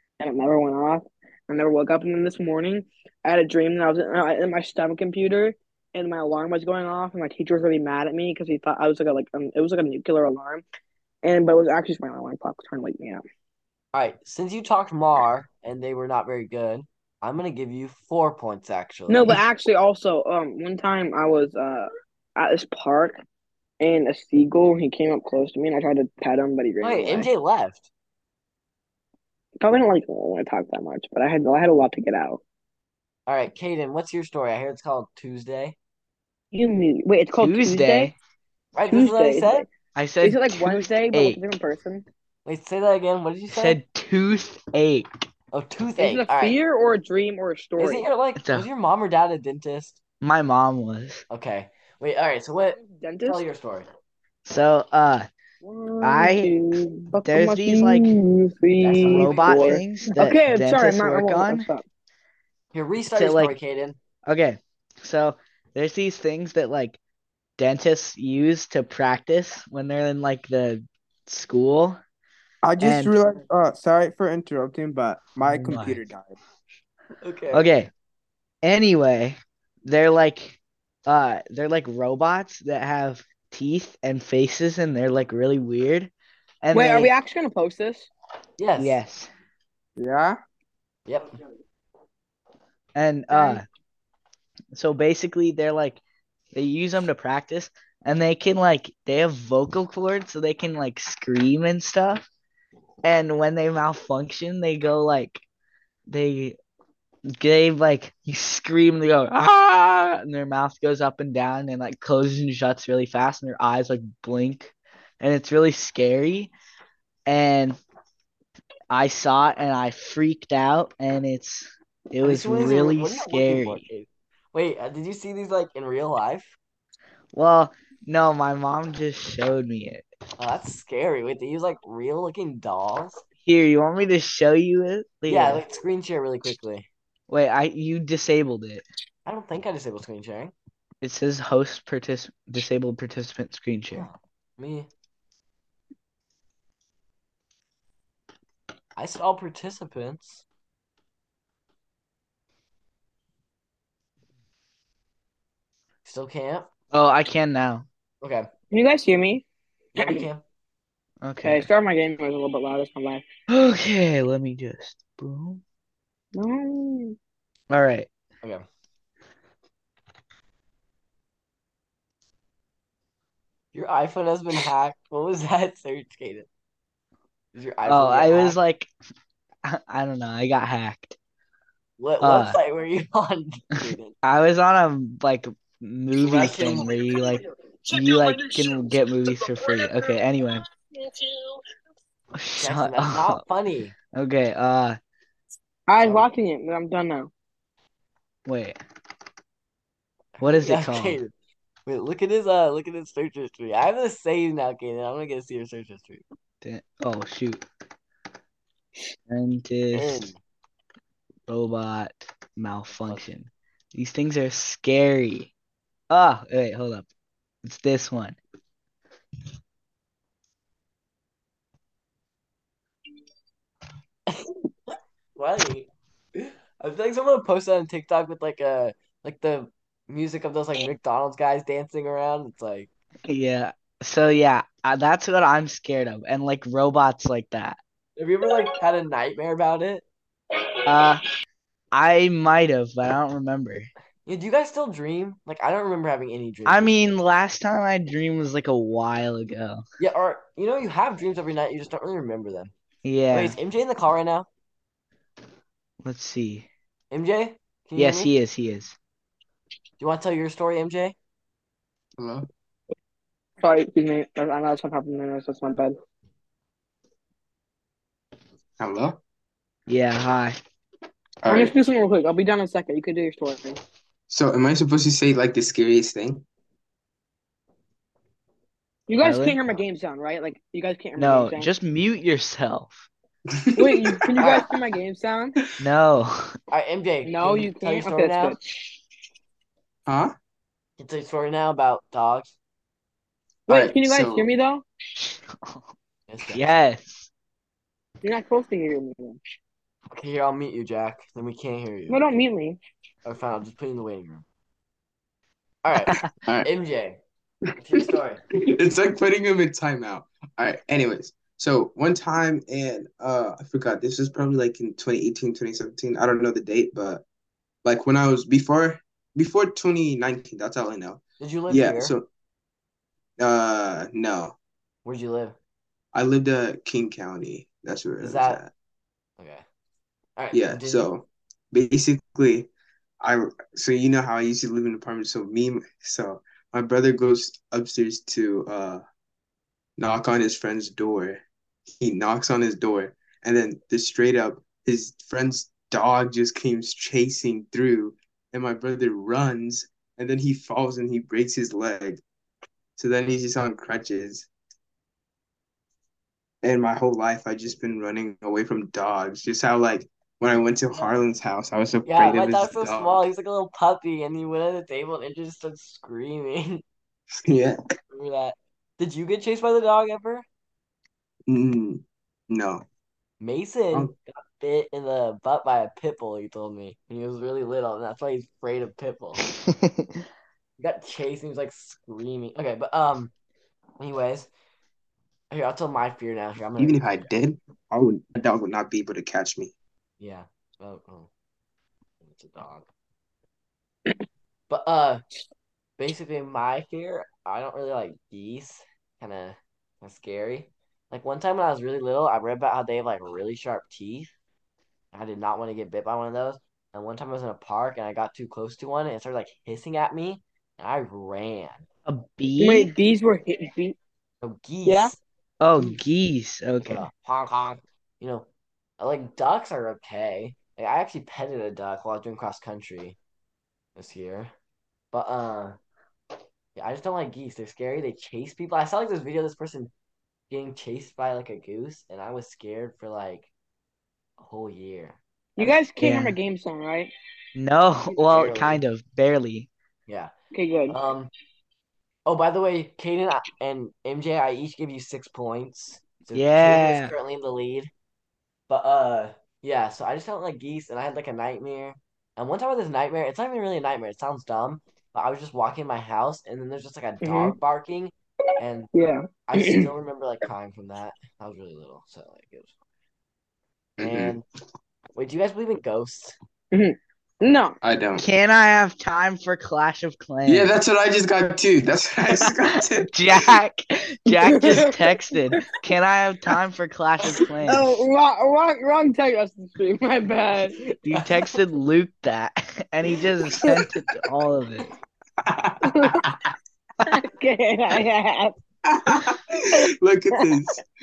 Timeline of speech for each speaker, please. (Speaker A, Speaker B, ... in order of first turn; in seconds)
Speaker A: 0.2-10.6, 11.2-13.2, 19.1-23.2, 23.8-27.3, 29.6-32.4, 36.5-38.1, 38.9-39.6, 40.2-42.0, 46.0-48.0, 52.8-53.4, 55.6-61.8, 86.7-88.1, 93.3-93.6, 158.7-159.4, 161.4-163.2, 166.3-167.2, 186.9-191.6, 195.9-197.3, 263.6-265.9, 271.5-273.8, 279.1-281.7, 283.8-285.5, 287.2-288.6, 293.7-294.8, 298.2-299.4, 302.1-302.8, 412.6-413.9, 414.8-415.1, 435.6-437.1, 440.5-441.0, 457.2-457.6, 458.9-459.9, 466.7-467.7, 474.4-474.9, 477.6-480.8, 483.5-483.8, 485.9-486.2, 487.1-488.5
Speaker B: 13.9-19.3, 26.8-27.9, 33.3-35.8, 38.7-39.6, 42.4-43.8, 45.5-46.6, 47.8-50.0, 51.3-53.9, 58.8-59.8, 62.7-64.0, 77.2-77.7, 88.6-89.0, 91.1-91.3, 122.2-126.5, 130.4-133.2, 135.3-136.9, 139.2-140.5, 143.9-144.9, 148.9-150.4, 156.0-156.7, 158.2-158.5, 159.9-160.4, 173.7-176.5, 177.5-178.6, 182.0-184.1, 186.2-186.9, 192.6-193.9, 196.0-196.2, 200.4-201.3, 201.8-206.2, 209.9-210.4, 224.9-232.9, 238.2-240.0, 244.2-247.0, 250.0-252.7, 253.3-254.5, 257.1-258.3, 260.0-261.1, 286.7-288.5, 291.0-292.5, 296.3-296.7, 300.1-302.2, 303.2-304.4, 305.8-307.2, 307.8-308.4, 321.4-322.1, 325.0-325.5, 328.2-328.6, 329.4-329.6, 330.4-331.1, 360.6-361.2, 362.0-366.8, 368.1-370.4, 373.4-379.4, 380.8-383.3, 384.0-384.5, 385.5-387.3, 390.2-391.3, 392.2-392.9, 394.7-395.2, 396.0-404.3, 405.1-411.8, 414.4-415.2, 416.8-418.5, 419.0-423.2, 423.9-424.5, 425.1-425.8, 426.8-429.9, 430.5-433.5, 434.4-435.8, 438.3-438.8, 440.1-440.3, 440.9-441.3, 442.2-447.9, 448.7-458.9, 459.5-462.7, 464.0-464.4, 465.1-466.4, 480.9-481.2
Speaker C: 37.4-38.1, 39.9-41.4, 43.5-45.1, 48.4-48.7, 50.2-51.2, 54.5-55.3, 56.0-56.5, 57.2-58.1, 59.1-61.7, 63.1-63.5, 64.2-67.0, 67.6-72.0, 72.8-73.1, 75.5-76.0, 77.5-77.9, 78.6-87.1, 88.8-89.3, 93.0-93.6, 94.7-96.0, 96.5-102.2, 103.0-105.4, 106.1-106.6, 107.4-116.5, 117.3-117.8, 118.9-123.8, 127.3-130.1, 133.4-135.6, 137.3-138.8, 141.0-144.1, 156.9-157.8, 161.2-161.7, 163.5-165.6, 167.7-168.1, 177.8-178.9, 179.6-181.2, 182.2-182.6, 184.2-190.6, 192.3-193.4, 194.1-195.0, 198.4-198.8, 200.4-201.2, 206.6-207.6, 209.3-210.3, 211.5-215.5, 216.1-217.1, 217.6-218.4, 233.3-237.8, 240.9-241.2, 241.9-243.9, 246.6-249.8, 253.0-253.6, 256.0-256.7, 257.9-258.9, 269.9-270.5, 279.2-279.6, 281.2-283.1, 285.8-286.5, 295.1-295.9, 296.5-297.3, 379.6-380.2, 412.1-412.9, 415.6-417.1, 436.0-436.4, 437.6-439.7, 446.3-447.1, 468.2-470.7, 473.1-478.1, 481.0-484.9
Speaker D: 72.6-76.4, 90.0-90.4, 262.2-262.5, 268.8-269.2, 271.4-271.7, 274.3-276.4, 283.8-284.5, 290.1-290.3, 293.7-294.5, 307.9-317.2, 317.8-322.3, 323.4-324.6, 326.1-328.7, 330.5-339.0, 340.0-341.4, 342.0-352.2, 353.0-354.5, 356.6-363.3, 367.5-367.8, 371.5-372.8, 386.8-389.7, 464.0-464.4, 467.8-468.2, 470.4-473.1, 485.4-486.2, 488.9-490.8